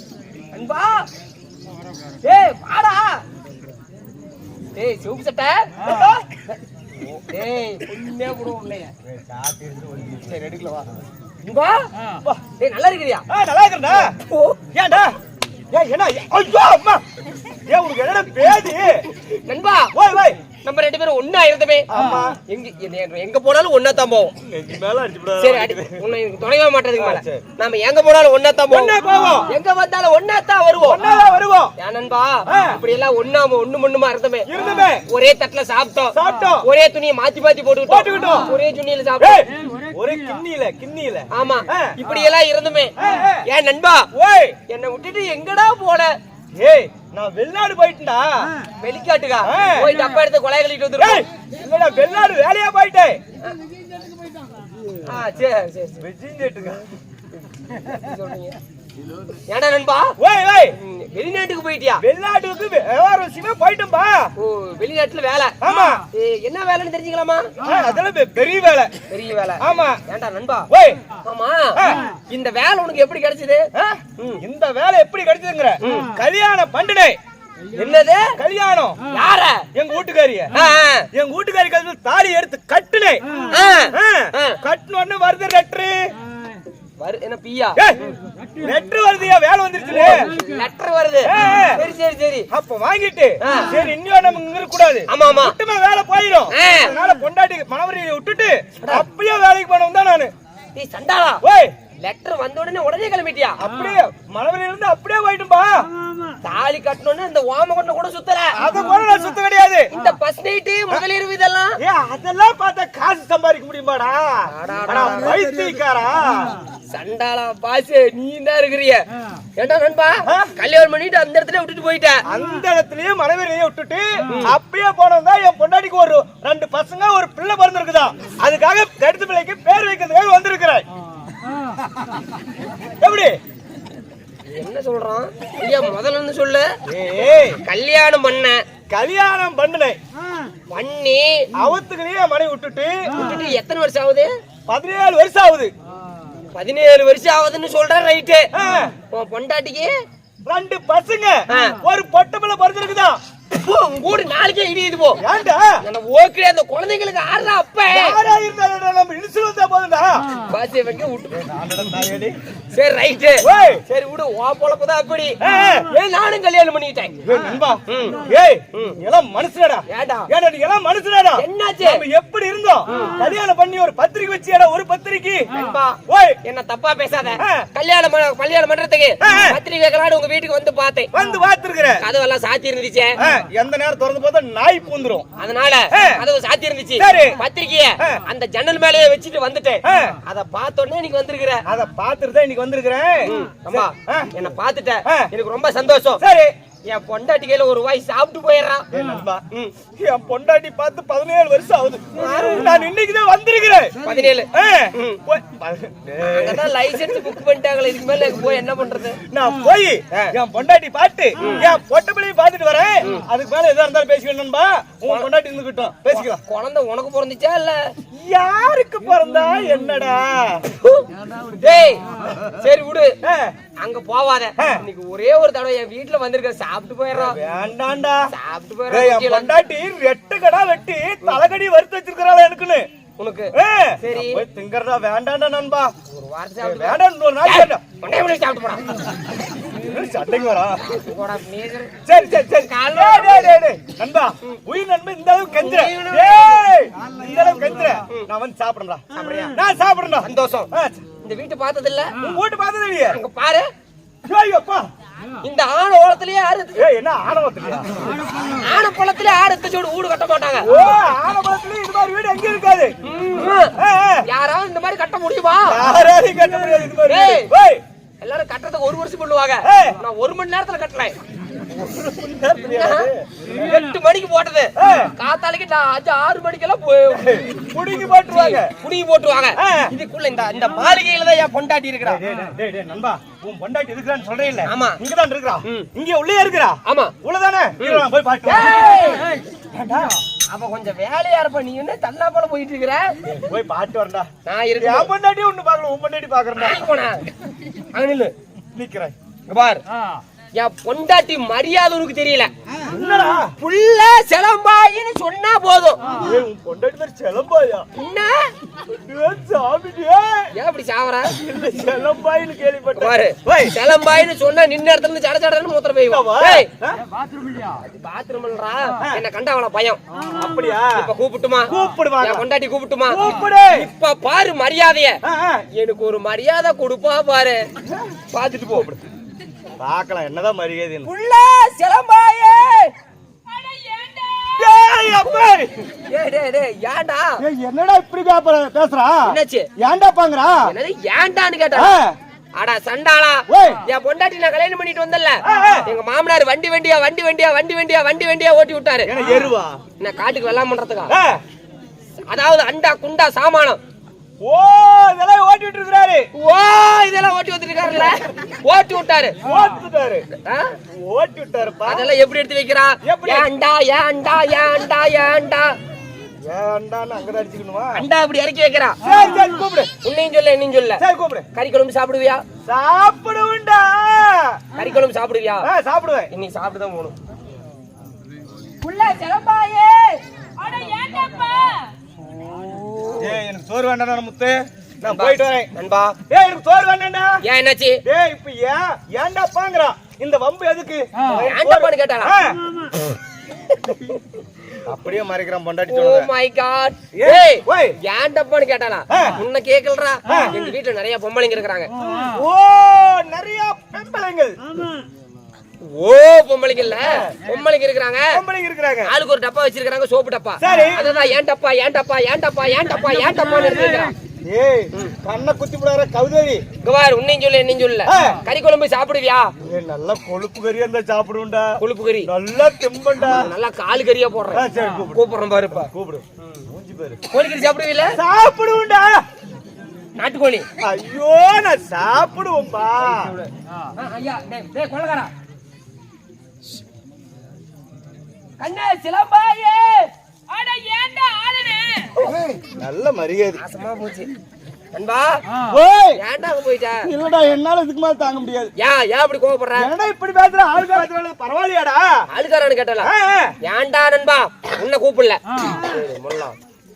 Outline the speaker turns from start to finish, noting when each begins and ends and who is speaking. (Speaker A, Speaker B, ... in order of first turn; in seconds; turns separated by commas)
Speaker A: 0.5-1.1, Speaker A: 2.2-3.2, Speaker A: 4.8-6.2, Speaker B: 5.8-6.2, Speaker A: 7.3-8.9, Speaker B: 9.0-11.0, Speaker A: 11.4-11.9, Speaker A: 12.6-13.3, Speaker B: 13.3-14.2, Speaker A: 13.9-14.6, Speaker B: 14.7-15.2, Speaker B: 15.7-17.1, Speaker B: 17.7-19.1, Speaker A: 19.5-19.9, Speaker B: 19.9-20.4, Speaker A: 20.6-21.9, Speaker B: 21.9-22.4, Speaker A: 22.5-24.3, Speaker B: 24.4-26.0, Speaker A: 25.4-31.1, Speaker B: 27.0-27.4, Speaker B: 28.7-29.5, Speaker B: 30.8-31.7, Speaker A: 31.8-39.5, Speaker B: 32.5-32.8, Speaker B: 34.5-35.0, Speaker B: 36.1-36.7, Speaker B: 37.8-38.5, Speaker B: 39.2-42.0, Speaker A: 41.3-42.9, Speaker B: 43.0-43.4, Speaker A: 43.5-44.1, Speaker B: 44.1-44.6, Speaker A: 44.7-46.1, Speaker B: 46.6-48.5, Speaker A: 48.8-51.2, Speaker B: 49.4-49.9, Speaker B: 51.0-53.2, Speaker A: 55.0-56.1, Speaker B: 56.0-56.9, Speaker B: 57.7-58.0, Speaker A: 57.7-58.6, Speaker A: 59.5-60.2, Speaker B: 60.2-60.8, Speaker A: 60.7-62.0, Speaker B: 62.0-64.3, Speaker A: 64.4-67.5, Speaker B: 65.6-66.0, Speaker B: 67.6-68.9, Speaker A: 69.1-70.7, Speaker B: 69.6-70.0, Speaker B: 70.7-71.0, Speaker A: 71.2-74.4, Speaker B: 71.8-72.0, Speaker B: 73.7-77.2, Speaker A: 75.8-76.1, Speaker A: 77.7-78.4, Speaker B: 78.4-79.0, Speaker A: 79.1-79.7, Speaker B: 79.7-80.5, Speaker A: 80.5-81.1, Speaker B: 81.1-83.2, Speaker A: 83.5-84.6, Speaker B: 83.9-86.1, Speaker A: 87.0-87.8, Speaker B: 88.6-90.3, Speaker A: 89.9-92.5, Speaker B: 91.2-91.8, Speaker B: 92.5-100.3, Speaker A: 93.4-93.8, Speaker A: 95.1-95.6, Speaker A: 96.5-96.9, Speaker A: 100.8-101.4, Speaker B: 101.4-101.7, Speaker A: 102.0-103.6, Speaker B: 103.6-105.9, Speaker A: 106.4-108.6, Speaker B: 108.5-109.9, Speaker A: 109.9-111.8, Speaker B: 111.8-116.6, Speaker A: 114.5-115.4, Speaker A: 116.9-119.0, Speaker A: 119.6-122.2, Speaker B: 120.3-120.5, Speaker B: 122.3-130.9, Speaker A: 124.3-124.5, Speaker B: 133.0-133.4, Speaker A: 134.5-136.7, Speaker B: 136.9-137.6, Speaker A: 137.6-138.6, Speaker B: 138.9-140.0, Speaker A: 140.7-141.5, Speaker B: 141.6-143.0, Speaker A: 143.1-144.3, Speaker B: 144.7-145.7, Speaker A: 146.5-148.5, Speaker B: 148.5-148.9, Speaker A: 149.1-149.9, Speaker B: 150.4-153.2, Speaker A: 151.5-151.8, Speaker A: 153.5-155.2, Speaker B: 155.2-155.8, Speaker A: 155.8-158.2, Speaker B: 157.9-160.3, Speaker A: 160.3-161.4, Speaker B: 161.3-162.4, Speaker A: 162.7-167.2, Speaker B: 163.4-163.8, Speaker B: 165.4-165.9, Speaker B: 167.2-175.5, Speaker A: 167.9-168.2, Speaker A: 168.7-169.0, Speaker A: 169.9-170.3, Speaker A: 171.4-172.1, Speaker A: 172.9-173.2, Speaker A: 175.5-181.1, Speaker B: 176.1-176.4, Speaker B: 177.4-177.7, Speaker B: 179.2-179.6, Speaker B: 181.1-182.0, Speaker A: 182.0-183.2, Speaker B: 183.2-185.3, Speaker A: 185.4-191.6, Speaker B: 185.9-186.2, Speaker B: 187.0-187.4, Speaker B: 189.8-190.2, Speaker B: 191.7-194.3, Speaker A: 193.2-196.2, Speaker B: 195.1-195.3, Speaker B: 196.2-196.5, Speaker A: 196.9-198.9, Speaker B: 198.9-199.4, Speaker B: 200.0-204.0, Speaker A: 202.2-202.8, Speaker A: 204.0-205.2, Speaker B: 204.5-207.4, Speaker A: 206.2-209.2, Speaker B: 209.3-216.4, Speaker A: 211.4-211.7, Speaker A: 216.1-217.9, Speaker B: 218.1-220.7, Speaker A: 220.8-223.2, Speaker B: 223.2-223.5, Speaker A: 223.8-227.4, Speaker B: 224.6-224.8, Speaker B: 227.1-228.2, Speaker A: 228.3-229.5, Speaker B: 228.9-232.9, Speaker A: 233.2-234.4, Speaker B: 233.5-235.9, Speaker A: 236.1-238.9, Speaker B: 236.6-237.8, Speaker B: 239.7-240.9, Speaker A: 240.8-241.9, Speaker B: 242.1-251.0, Speaker A: 242.5-243.6, Speaker A: 245.5-246.7, Speaker A: 249.1-249.6, Speaker A: 250.2-252.1, Speaker B: 252.2-253.2, Speaker A: 253.1-253.7, Speaker B: 254.2-254.9, Speaker A: 255.4-256.9, Speaker B: 256.8-258.1, Speaker A: 258.3-261.0, Speaker B: 260.6-262.9, Speaker A: 263.0-265.9, Speaker B: 263.8-264.2, Speaker B: 265.7-267.8, Speaker A: 267.0-267.5, Speaker A: 268.2-271.2, Speaker B: 269.6-270.0, Speaker B: 271.7-273.3, Speaker A: 272.7-277.5, Speaker B: 274.8-275.1, Speaker B: 277.1-278.8, Speaker A: 278.3-282.2, Speaker B: 279.6-279.9, Speaker B: 282.0-290.2, Speaker A: 284.6-285.0, Speaker A: 285.6-285.9, Speaker A: 286.9-287.1, Speaker A: 287.8-289.3, Speaker A: 290.5-293.2, Speaker B: 293.2-294.3, Speaker A: 294.5-295.1, Speaker B: 294.8-296.9, Speaker A: 296.6-298.3, Speaker B: 298.7-299.1, Speaker A: 299.5-299.8, Speaker A: 300.6-302.5, Speaker B: 302.9-303.5, Speaker A: 303.6-306.1, Speaker B: 306.1-307.9, Speaker A: 307.9-308.6, Speaker B: 308.9-310.5, Speaker A: 310.6-311.3, Speaker B: 311.3-313.8, Speaker A: 313.0-316.7, Speaker B: 316.1-317.0, Speaker A: 317.5-320.0, Speaker B: 320.3-321.1, Speaker A: 320.8-325.2, Speaker B: 321.7-322.4, Speaker B: 323.1-323.9, Speaker B: 325.2-325.7, Speaker A: 325.8-327.7, Speaker A: 328.3-329.0, Speaker B: 329.8-331.1, Speaker A: 331.0-332.9, Speaker C: 333.5-334.8, Speaker B: 334.6-335.9, Speaker A: 336.1-337.4, Speaker B: 337.4-340.7, Speaker A: 339.3-339.7, Speaker A: 340.6-342.0, Speaker B: 341.8-342.2, Speaker A: 342.6-349.4, Speaker B: 343.5-343.8, Speaker B: 345.4-345.9, Speaker B: 349.1-349.8, Speaker A: 350.0-351.1, Speaker B: 351.1-351.4, Speaker A: 352.3-353.8, Speaker B: 354.4-356.3, Speaker A: 356.4-359.4, Speaker B: 359.4-360.3, Speaker A: 360.4-360.8, Speaker B: 361.0-362.1, Speaker A: 361.9-365.8, Speaker B: 363.0-363.5, Speaker B: 366.4-368.1, Speaker A: 367.9-369.0, Speaker B: 369.0-369.9, Speaker A: 370.0-371.0, Speaker B: 371.0-371.5, Speaker A: 371.5-372.4, Speaker B: 372.7-374.6, Speaker A: 374.8-375.7, Speaker B: 375.6-376.3, Speaker A: 376.3-377.1, Speaker A: 378.8-380.9, Speaker C: 380.6-381.9, Speaker A: 382.4-383.4, Speaker B: 383.2-385.7, Speaker A: 385.1-386.2, Speaker B: 386.3-387.4, Speaker A: 387.4-388.0, Speaker B: 388.1-392.6, Speaker A: 391.4-392.4, Speaker A: 393.7-394.2, Speaker B: 394.8-396.3, Speaker A: 395.9-401.9, Speaker B: 397.1-398.0, Speaker B: 399.1-399.4, Speaker B: 400.3-400.5, Speaker B: 402.2-404.6, Speaker A: 405.8-408.4, Speaker B: 407.0-407.4, Speaker B: 408.3-409.1, Speaker A: 409.1-414.1, Speaker B: 410.6-411.1, Speaker B: 414.4-416.6, Speaker A: 416.8-419.5, Speaker B: 418.1-418.4, Speaker B: 419.6-423.5, Speaker A: 421.8-422.3, Speaker A: 423.2-426.6, Speaker B: 424.5-427.2, Speaker A: 427.3-428.2, Speaker B: 428.1-429.2, Speaker A: 430.2-430.7, Speaker B: 430.8-433.4, Speaker A: 434.0-435.3, Speaker A: 438.6-440.1, Speaker C: 440.5-442.2, Speaker B: 442.2-443.6, Speaker A: 443.6-444.3, Speaker A: 444.9-445.4, Speaker B: 445.6-446.2, Speaker A: 446.1-447.1, Speaker B: 447.0-448.7, Speaker A: 448.8-449.9, Speaker B: 449.8-452.2, Speaker A: 452.3-453.1, Speaker B: 453.0-453.6, Speaker A: 453.6-456.6